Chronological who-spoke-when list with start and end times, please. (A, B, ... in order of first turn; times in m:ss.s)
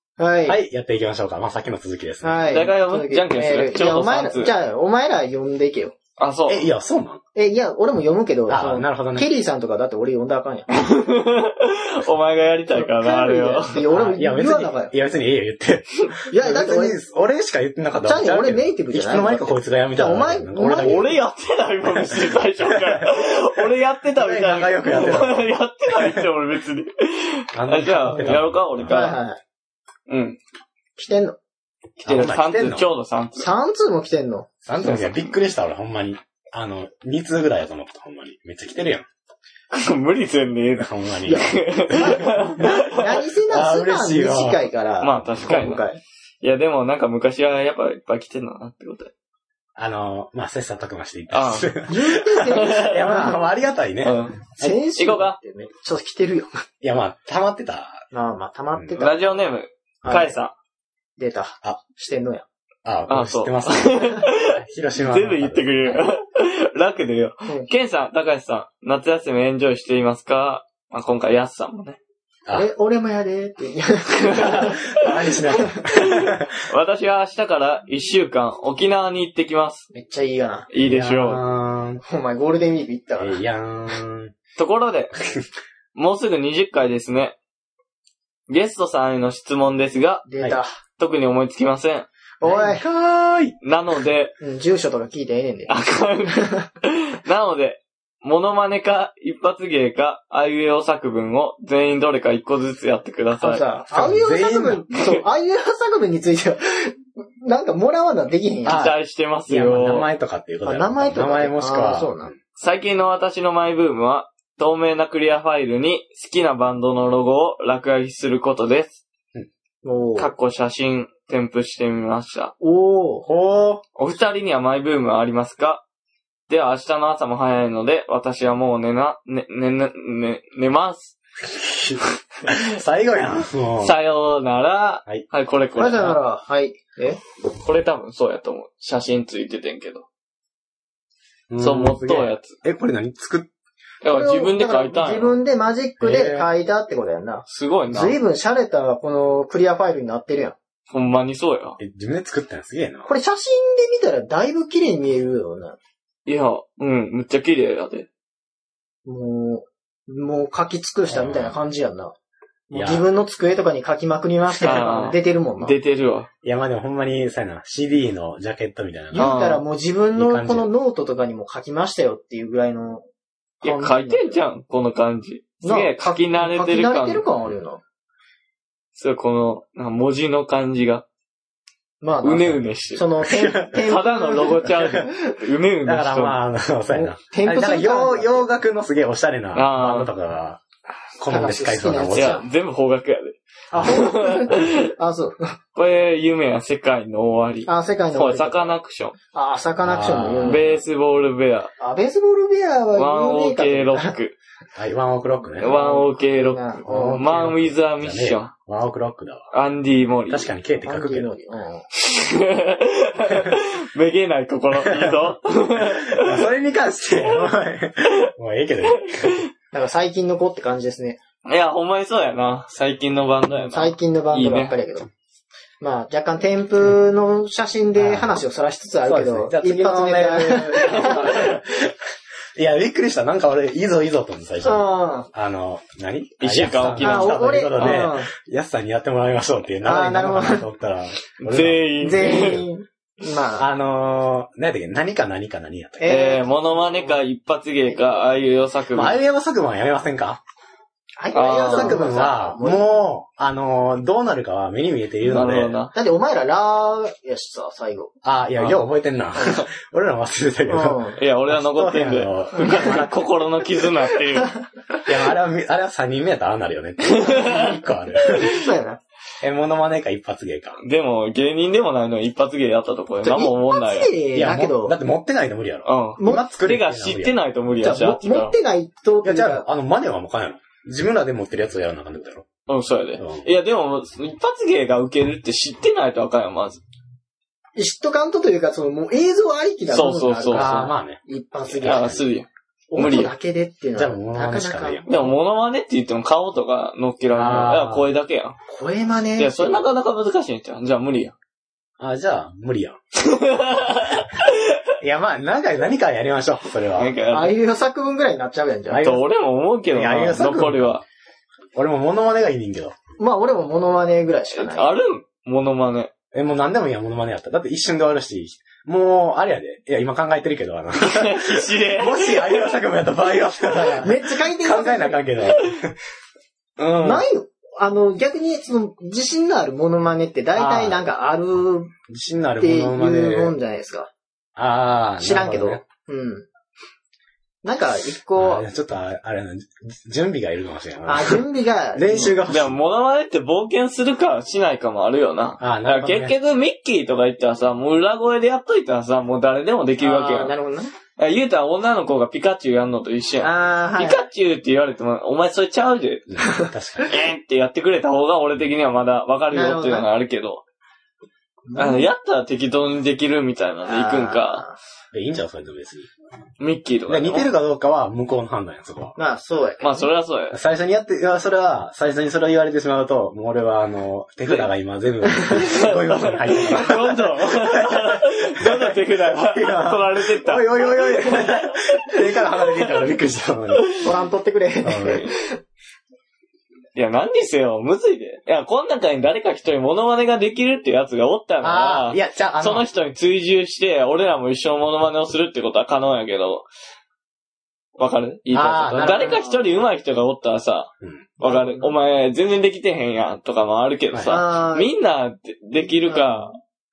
0:00.2-0:00.6 A
0:00.5-0:02.5 B
0:02.2-0:06.0 A
0:02.5-0:04.5 C
0:06.2-0:06.7 C
0:06.5-0:07.2 B
0:07.3-0:10.8 A
0:08.5-0:09.3 B
0:10.7-0:13.8 C
0:12.7-0:14.9 A
0:13.9-0:21.2 B
0:16.3-0:17.0 A
0:18.0-0:21.1 A
0:20.7-0:29.2 C
0:22.7-0:23.1 B
0:24.1-0:26.2 B
0:27.5-0:29.0 B
0:28.9-0:29.4 A
0:30.1-0:30.4 C
0:31.0-0:31.4 A
0:32.0-0:33.5 C
0:32.0-0:32.9 B
0:33.4-0:34.5 A
0:34.6-0:39.0 B
0:34.8-0:35.3 C
0:39.7-0:43.2 C
0:40.8-0:42.2 B
0:41.3-0:46.0 A
0:43.5-0:44.7 B
0:45.0-0:45.9 C
0:46.4-0:49.1 C
0:49.8-0:54.8 B
0:51.3-0:51.8 C
0:51.9-0:53.5 A
0:52.4-0:53.0 C
0:54.0-0:55.4 C
0:54.6-0:56.6 A
0:56.8-0:58.0 B
0:58.1-0:59.2 A
0:59.0-1:00.5 C
1:00.0-1:00.4 A
1:01.2-1:02.4 A
1:02.8-1:06.0 B
1:03.1-1:12.0 C
1:12.5-1:14.9 A
1:14.2-1:19.9 C
1:14.4-1:16.5 B
1:15.5-1:15.8 A
1:19.9-1:20.7 A
1:20.7-1:21.4 C
1:20.8-1:22.0 B
1:22.0-1:23.4 A
1:23.2-1:24.3 B
1:24.6-1:25.2 C
1:25.9-1:27.4 C
1:28.5-1:30.2 C
1:30.2-1:30.7 A
1:31.0-1:32.1 C
1:32.4-1:32.8 A
1:32.4-1:33.6 B
1:33.6-1:34.3 C
1:34.4-1:35.8 A
1:35.7-1:43.7 C
1:36.3-1:36.6 A
1:43.4-1:48.8 A
1:43.9-1:44.8 B
1:44.9-1:45.2 C
1:48.6-1:52.3 B
1:48.7-1:50.1 C
1:50.6-1:52.3 A
1:52.6-1:59.0 C
1:59.8-2:00.3 A
2:00.2-2:02.5 C
2:02.6-2:03.3 A
2:03.2-2:03.8 B
2:04.0-2:05.8 C
2:06.5-2:11.2 C
2:11.5-2:13.9 B
2:13.8-2:16.2 C
2:15.8-2:17.2 A
2:17.6-2:20.1 C
2:21.5-2:23.5 B
2:21.6-2:22.6 C
2:24.0-2:25.4 C
2:24.0-2:30.6 A
2:26.0-2:26.5 B
2:27.5-2:28.2 C
2:30.9-2:31.8 C
2:31.8-2:33.1 B
2:33.1-2:35.8 A
2:36.2-2:38.1 C
2:39.0-2:42.1 A
2:41.1-2:41.6 B
2:42.7-2:45.8 A
2:42.7-2:43.1 B
2:44.6-2:46.3 C
2:46.4-2:49.3 B
2:49.1-2:53.0 A
2:49.2-2:49.6 C
2:50.2-2:50.7 B
2:53.6-2:54.4 A
2:53.6-2:57.3 C
2:55.6-2:57.8 A
2:58.9-3:01.0 C
3:02.0-3:05.3 A
3:02.2-3:06.4 C
3:03.2-3:03.8 B
3:05.8-3:10.6 B
3:06.9-3:08.5 A
3:09.5-3:10.1 C
3:11.2-3:12.4 B
3:11.3-3:12.4 A
3:12.1-3:14.9 C
3:13.7-3:15.6 A
3:15.8-3:19.2 C
3:17.7-3:18.8 A
3:19.3-3:20.8 A
3:19.8-3:20.6 B
3:20.4-3:21.7 C
3:21.8-3:24.2 A
3:22.9-3:24.4 C
3:24.8-3:25.7 B
3:25.5-3:27.2 A
3:25.6-3:28.5 C
3:26.8-3:29.5 B
3:29.5-3:30.5 C
3:30.3-3:31.3 B
3:30.8-3:31.8 A
3:31.9-3:36.4 C
3:34.9-3:35.2 B
3:35.8-3:39.4 B
3:37.2-3:37.4 C
3:38.9-3:39.5 C
3:39.7-3:41.2 A
3:41.4-3:44.7 C
3:43.6-3:45.1 A
3:45.8-3:51.5 A
3:48.0-3:48.4 B
3:49.0-3:51.9 B
3:50.8-3:51.6 C
3:52.6-4:02.6 B
3:54.6-3:55.3 A
3:56.4-3:58.0 C
3:57.0-3:58.3 A
3:59.8-4:00.6 A
4:01.4-4:02.6 C
4:02.0-4:03.7 A
4:03.6-4:06.1 B
4:06.0-4:07.2 A
4:06.1-4:09.2 C
4:08.9-4:10.4 B
4:11.2-4:12.8 A
4:11.3-4:12.0 C
4:11.6-4:15.8 B
4:15.2-4:15.9 C
4:15.9-4:18.8 A
4:18.2-4:23.1 B
4:19.4-4:19.6 A
4:20.7-4:21.2 A
4:21.2-4:24.5 C
4:25.1-4:28.6 B
4:27.1-4:28.6 C
4:28.4-4:29.0 A
4:29.4-4:30.8 B
4:30.8-4:34.1 C
4:33.2-4:34.9 A
4:34.3-4:37.4 B
4:35.9-4:38.6 C
4:36.2-4:36.5 A
4:37.8-4:39.6 A
4:39.2-4:42.5 B
4:42.7-4:46.8 C
4:43.2-4:43.5 B
4:47.8-4:52.2 A
4:49.9-4:50.9 C
4:50.5-4:52.3 B
4:51.8-4:53.3 C
4:52.9-4:55.2 A
4:53.9-4:55.2 B
4:55.1-4:58.6 C
4:57.3-4:58.1 B
4:58.7-4:59.9 A
4:59.4-5:01.3 C
5:02.0-5:03.0 B
5:03.2-5:04.9 C
5:05.0-5:07.1 B
5:07.0-5:07.6 C
5:07.3-5:09.2 A
5:08.9-5:09.2 B
5:09.0-5:11.0 C
5:09.9-5:11.0 B
5:11.8-5:13.0 B
5:13.2-5:15.0 A
5:14.6-5:16.1 C
5:16.3-5:26.0 B
5:21.0-5:22.8 C
5:23.8-5:25.2 A
5:26.8-5:27.2 B
5:27.0-5:32.0 A
5:30.6-5:31.1 B
5:32.1-5:33.6 B
5:32.6-5:34.1 A
5:34.6-5:35.8 B
5:35.2-5:36.4 A
5:37.6-5:38.6 A
5:38.4-5:41.4 B
5:41.1-5:42.4 A
5:41.9-5:42.8 B
5:42.5-5:50.5 C
5:45.6-5:46.3 B
5:50.0-5:50.9 A
5:51.2-5:56.2 C
5:53.4-5:54.2 A
5:56.3-5:57.2 B
5:56.4-5:56.7 A
5:57.0-6:00.6 C
5:59.5-6:00.1 A
6:01.7-6:02.1 A
6:01.8-6:04.6 C
6:03.9-6:04.8 A
6:05.1-6:06.1 B
6:06.6-6:07.5 C
6:07.1-6:09.1 B
6:09.2-6:10.0 A
6:09.8-6:10.6 C
6:10.5-6:23.9 B
6:15.5-6:22.2 C
6:24.0-6:25.6 A
6:24.8-6:25.3 B
6:27.0-6:36.6 C
6:31.6-6:32.9 B
6:38.0-6:46.6 C
6:38.5-6:39.4 B
6:39.0-6:39.7 A
6:41.0-6:41.4 B
6:41.5-6:41.9 A
6:44.3-6:44.9 A
6:46.0-6:46.4 A